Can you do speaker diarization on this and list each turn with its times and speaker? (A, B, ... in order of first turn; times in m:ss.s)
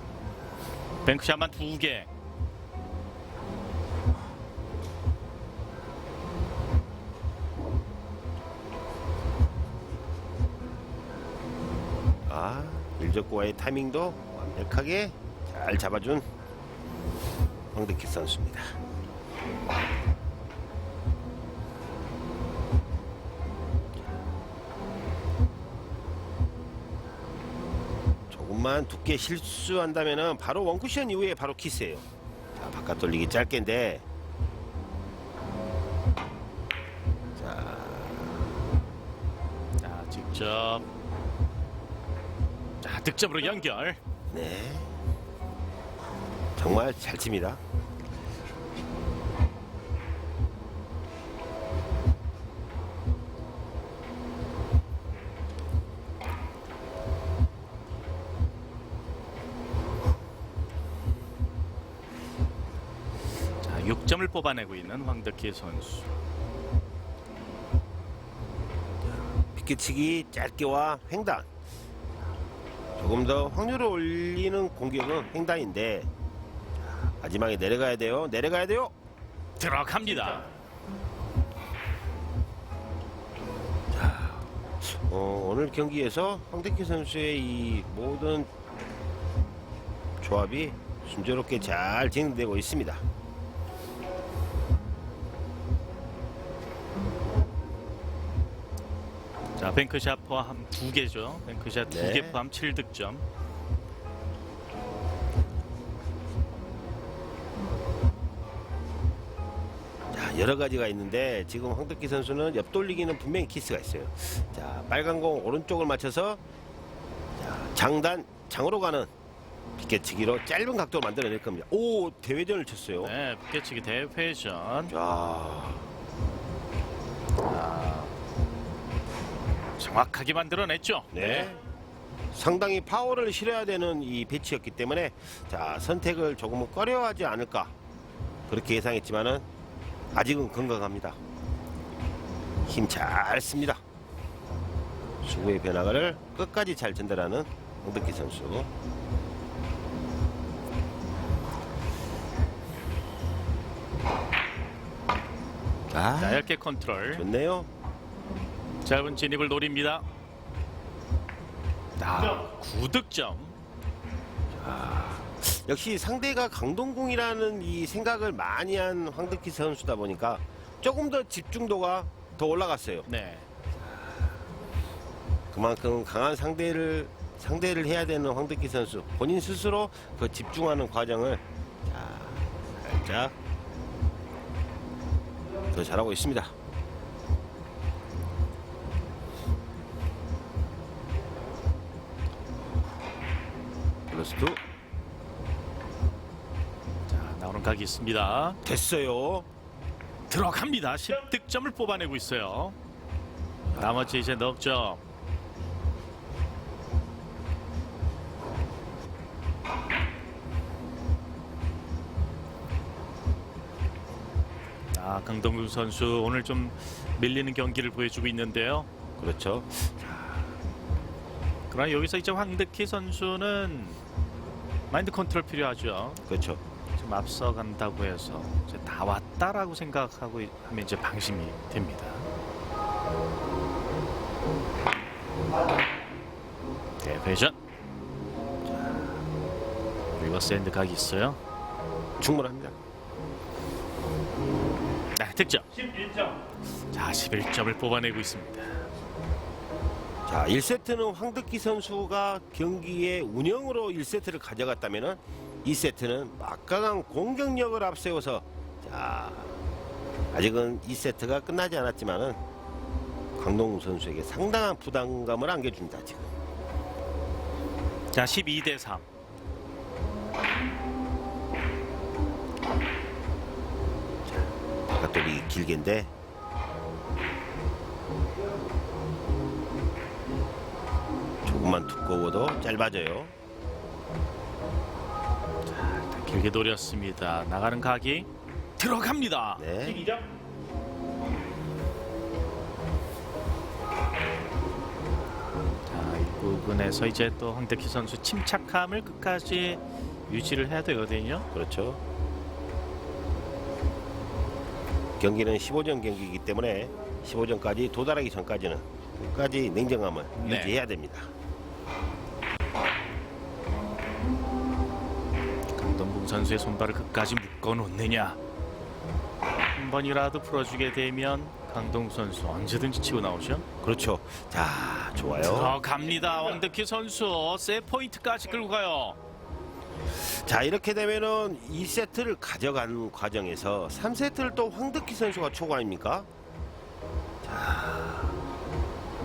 0:01.0-0:02.1 A
0:12.3-0:16.3 B
0:17.7-0:18.8 B
0:28.3-0:34.0 B
0:37.4-0:38.4 B
0:39.8-0:40.9 A
0:42.8-0:44.0 A
0:44.3-0:44.9 B
0:46.6-0:47.6 B
1:03.6-1:06.2 A
1:09.5-1:11.5 B
1:13.0-1:16.1 B
1:17.2-1:18.9 B
1:19.6-1:20.5 A
1:23.9-1:28.5 B
1:30.2-1:33.0 B
1:39.6-1:43.2 A
1:41.9-1:42.4 B
1:50.1-1:56.4 B
1:57.4-1:59.1 B
1:59.8-2:03.2 B
2:03.0-2:04.9 A
2:04.9-2:05.9 B
2:07.4-2:08.2 A
2:09.8-2:11.5 A
2:11.1-2:11.6 B
2:12.3-2:17.7 B
2:18.5-2:19.4 B
2:20.1-2:21.2 B
2:22.6-2:23.8 B
2:25.2-2:28.7 B
2:35.9-2:36.5 B
2:36.2-2:37.3 A
2:37.1-2:37.7 B
2:38.8-2:40.0 A
2:42.0-2:43.6 A
2:44.5-2:53.1 B
2:53.1-2:53.4 A
2:53.8-2:54.3 B
2:55.5-3:03.4 B
3:05.7-3:06.5 B
3:14.1-3:14.6 B
3:17.1-3:18.6 A
3:18.6-3:19.5 B
3:20.3-3:22.8 A
3:23.7-3:24.2 B
3:23.8-3:25.0 A
3:34.9-3:38.9 A
3:39.2-3:40.5 B
3:41.7-3:44.0 A
3:44.9-3:46.2 A
3:46.3-3:46.6 B
3:47.0-3:52.3 A
3:57.0-3:57.6 A
3:58.7-3:59.1 B
4:00.2-4:01.4 A
4:02.2-4:02.8 B
4:05.2-4:06.2 A
4:06.9-4:08.9 A
4:10.3-4:19.6 B
4:20.3-4:22.4 B
4:23.4-4:26.3 B
4:28.1-4:29.0 A
4:34.4-4:36.1 B
4:41.4-4:43.3 B
4:45.7-4:49.7 A
4:49.6-4:50.2 B
4:55.9-5:01.5 A
5:01.5-5:02.0 B
5:05.2-5:11.3 B
5:10.4-5:10.8 A
5:15.7-5:18.4 A
5:19.7-5:23.6 A
5:23.8-5:25.8 B
5:25.4-5:29.2 A
5:30.2-5:36.3 B
5:37.4-5:38.4 B